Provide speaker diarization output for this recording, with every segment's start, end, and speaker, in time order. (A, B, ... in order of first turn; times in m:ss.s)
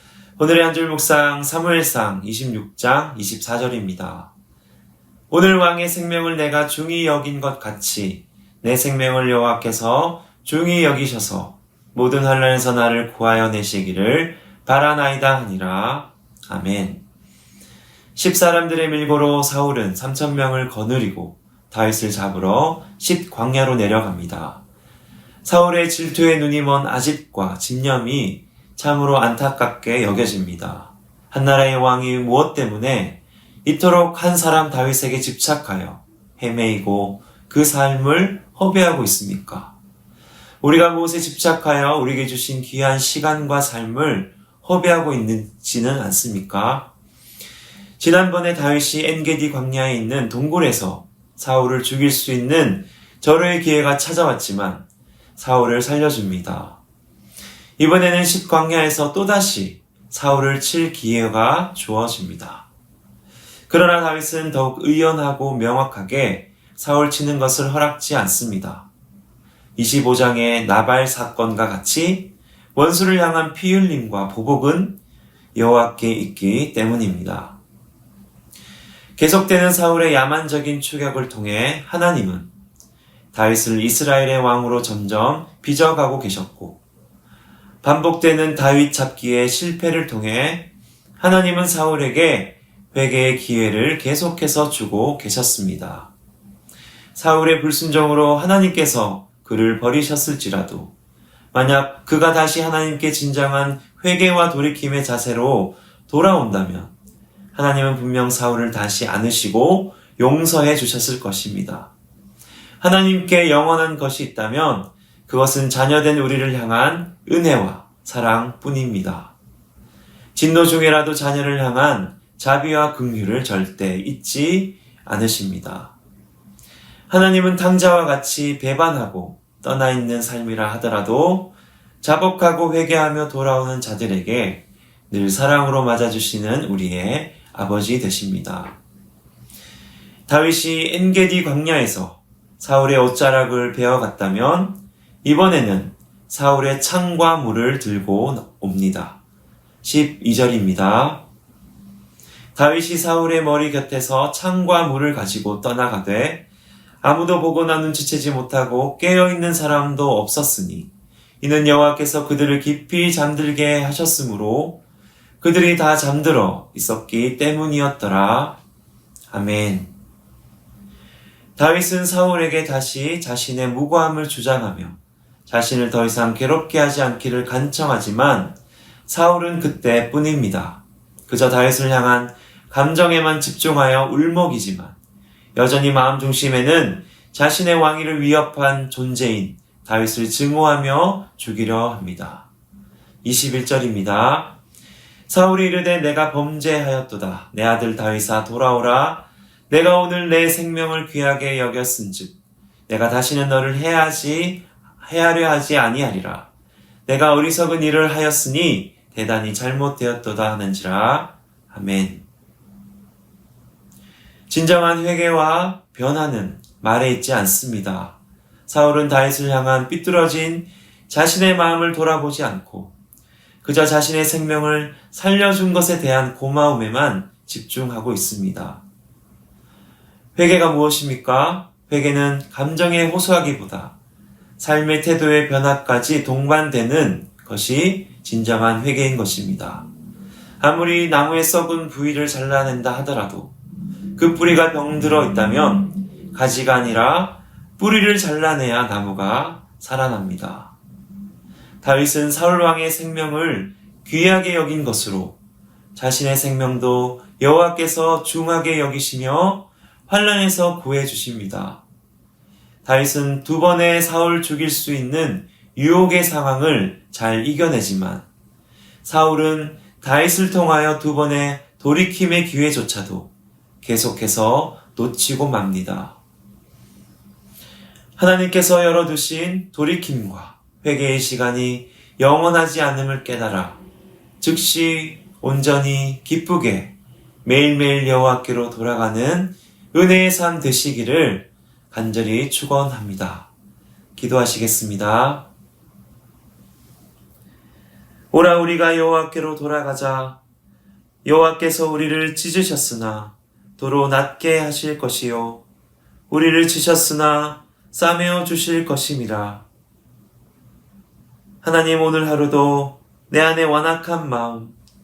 0:00.4-0:04.3 A
0:05.3-0:17.0 A
0:18.1-0:24.6 A
0:25.4-0:39.7 A
0:40.6-0:46.9 A
0:48.0-0:54.8 A
0:55.4-0:56.8 A
0:57.8-1:02.7 A
1:03.7-1:08.9 A
1:09.8-1:15.0 A
1:15.5-1:17.6 A
1:19.2-1:22.5 A
1:23.3-1:26.8 A
1:27.8-1:36.1 A
1:37.1-1:40.9 A
1:41.5-1:46.9 A
1:47.5-1:51.9 A
1:52.8-1:59.3 A
2:00.3-2:05.9 A
2:07.1-2:18.8 A
2:20.3-2:29.2 A
2:29.8-2:31.2 A
2:32.5-2:36.4 A
2:37.0-2:40.9 A
2:41.4-2:44.8 A
2:45.4-2:48.6 A
2:49.3-2:49.9 A
2:51.6-3:05.0 A
3:05.5-3:12.5 A
3:13.2-3:14.6 A
3:15.3-3:22.3 A
3:22.9-3:26.5 A
3:27.0-3:32.2 A
3:34.5-3:38.2 A
3:38.7-3:42.9 A
3:43.6-3:48.8 A
3:50.4-3:53.9 A
3:54.6-3:59.9 A
4:00.6-4:03.5 A
4:04.2-4:10.7 A
4:11.8-4:15.4 A
4:15.9-4:21.8 A
4:22.8-4:28.2 A
4:29.0-4:33.3 A
4:33.8-4:36.2 A
4:38.2-4:43.8 A
4:44.4-4:53.5 A
4:54.2-4:55.5 A
4:58.3-5:00.4 A
5:01.2-5:05.6 A
5:06.3-5:09.6 A
5:11.6-5:14.8 A